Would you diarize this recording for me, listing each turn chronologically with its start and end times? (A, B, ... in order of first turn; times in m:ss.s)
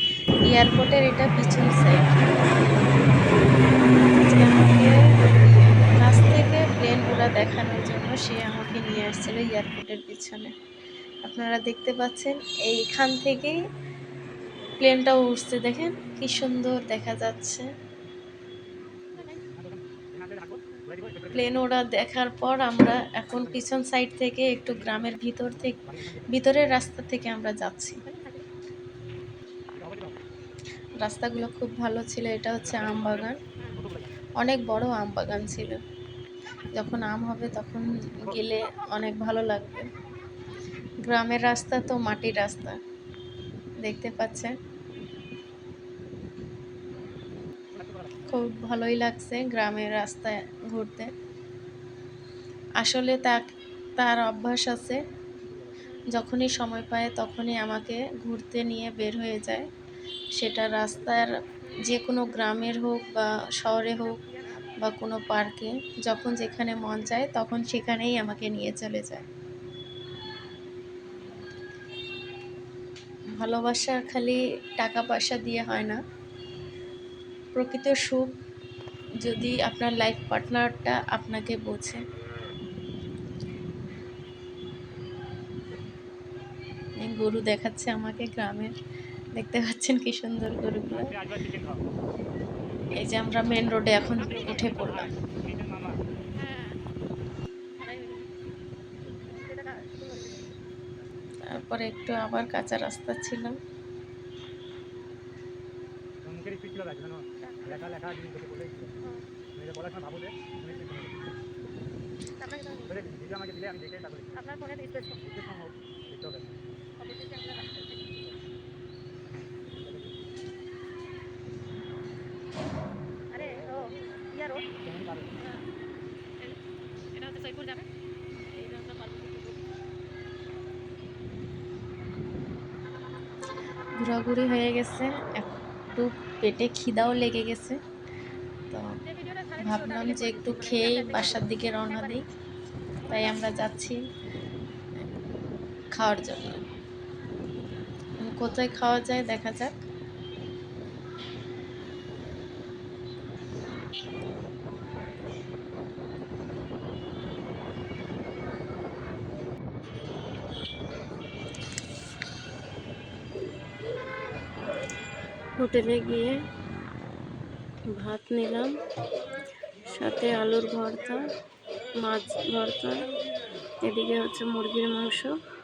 0:00.4-0:03.3 A
0:04.0-0:10.5 A
0:11.2-0:13.6 A
0:14.8-0:17.7 A
0:19.4-0:21.4 B
0:21.3-0:28.0 A
0:25.7-0:26.4 B
0:28.0-0:28.4 C
0:29.7-0:30.2 B
0:31.0-0:33.4 A
0:32.7-0:34.2 B
0:34.4-0:35.8 A
0:36.7-0:39.9 A
0:41.0-0:42.8 A
0:43.8-0:44.5 A
0:47.7-0:48.2 B
0:48.3-0:51.1 A
0:52.8-0:53.4 A
0:54.0-0:55.0 A
0:56.0-0:59.7 A
1:00.4-1:04.2 A
1:04.3-1:04.6 C
1:04.8-1:09.3 A
1:13.4-1:16.0 A
1:17.6-1:18.3 A
1:19.2-1:22.0 A
1:27.0-1:28.7 A
1:29.4-1:31.2 A
1:31.0-1:31.8 B
1:33.0-1:35.1 A
1:34.4-1:36.0 B
1:36.4-1:36.8 C
1:37.8-1:38.3 C
1:39.3-1:40.4 C
1:41.5-1:43.6 A
1:46.2-1:48.9 B
1:49.6-1:51.2 B
1:52.4-1:53.0 C
1:52.9-1:54.4 B
1:54.4-1:55.2 C
1:55.2-1:56.6 B
1:57.0-1:58.1 C
1:59.8-2:00.2 B
2:03.3-2:04.7 C
2:04.8-2:05.4 B
2:07.1-2:07.9 C
2:08.4-2:09.6 C
2:14.0-2:17.8 A
2:18.7-2:19.0 A
2:19.1-2:21.2 C
2:19.6-2:22.2 A
2:23.0-2:24.0 A
2:25.9-2:26.6 A
2:28.2-2:29.8 A
2:45.6-2:46.4 A
2:47.9-2:48.7 A
2:49.9-2:51.2 A
2:52.0-2:53.0 A
2:53.8-2:55.4 A